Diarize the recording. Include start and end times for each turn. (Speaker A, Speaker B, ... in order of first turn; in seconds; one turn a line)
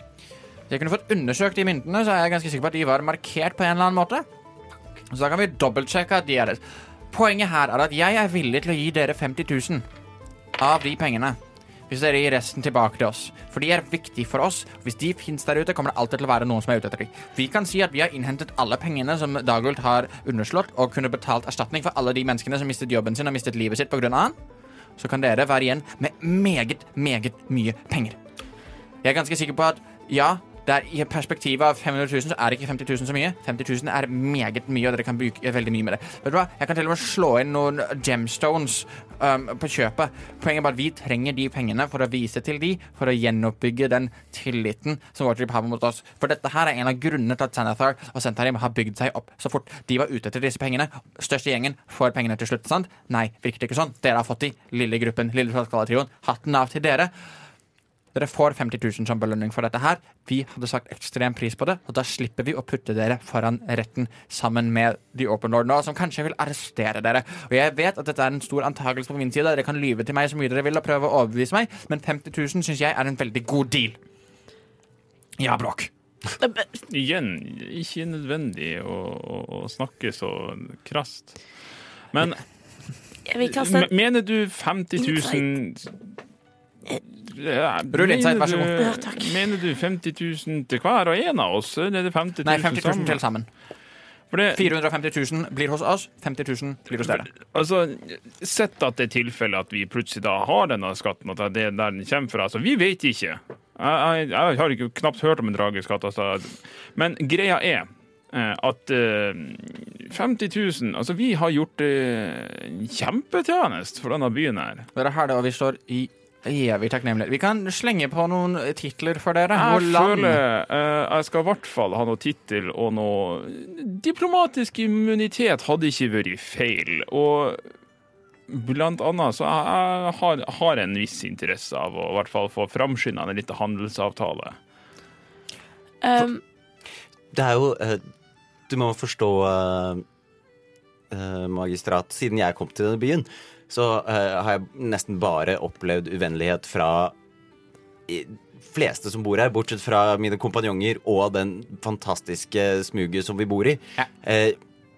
Speaker A: 0.7-4.2
Speaker A: 5.1-9.8
Speaker A: 10.6-11.4
Speaker A: 11.9-24.4
Speaker A: 25.0-28.2
Speaker A: 29.0-57.1
Speaker A: 58.1-74.0
Speaker A: 75.4-75.9
Speaker B: 76.4-76.7
Speaker C: 76.9-81.3
Speaker C: 82.1-82.4
Speaker B: 83.3-83.9
Speaker C: 83.4-85.9
Speaker B: 85.0-85.4
Speaker C: 87.0-93.2
Speaker A: 87.9-88.8
Speaker B: 88.8-89.5
Speaker A: 92.4-93.5
Speaker C: 94.3-94.7
Speaker A: 94.5-97.3
Speaker C: 97.0-114.9
Speaker A: 114.9-120.4
Speaker C: 119.5-127.6
Speaker C: 128.5-134.6
Speaker B: 136.0-136.4
Speaker D: 137.3-138.0
Speaker D: 138.7-140.0
Speaker D: 141.1-147.1
Speaker D: 148.1-154.6